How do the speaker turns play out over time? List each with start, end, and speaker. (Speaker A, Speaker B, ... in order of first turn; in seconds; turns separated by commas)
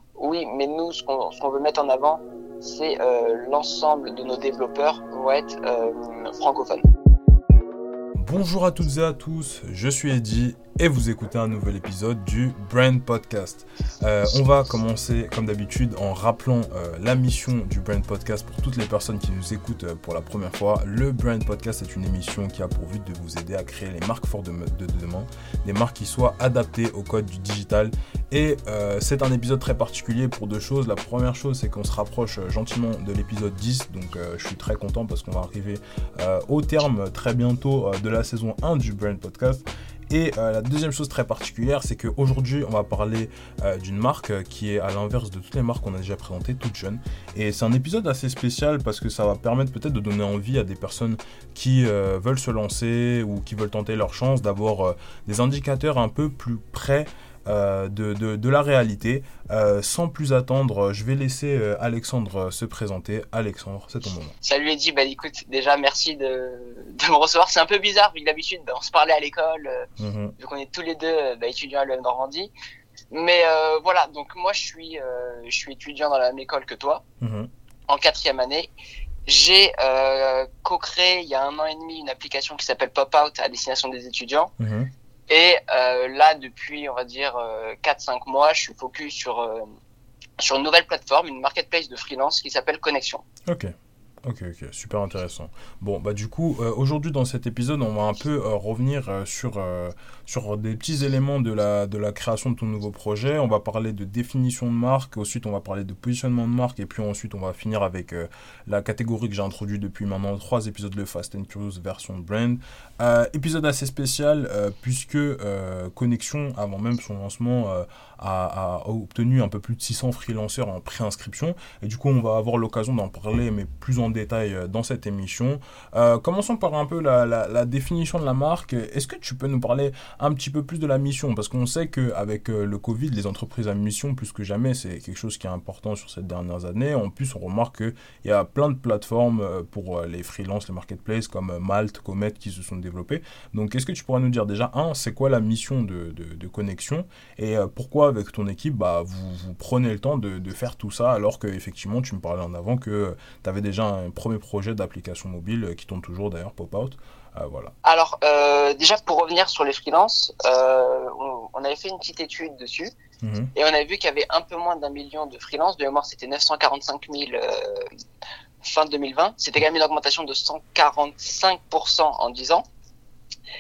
Speaker A: 0.2-6.8, Speaker B: 8.2-64.3, Speaker A: 64.4-69.9, Speaker B: 70.0-70.3, Speaker A: 70.4-72.5, Speaker A: 73.1-77.0, Speaker B: 77.2-77.5, Speaker A: 77.9-78.7, Speaker A: 79.3-84.5, Speaker B: 84.6-84.9, Speaker A: 85.3-89.7, Speaker A: 90.4-93.2, Speaker B: 93.5-93.7, Speaker B: 94.2-157.7, Speaker A: 157.8-162.9, Speaker B: 163.2-163.5, Speaker A: 163.6-167.9, Speaker A: 168.6-172.7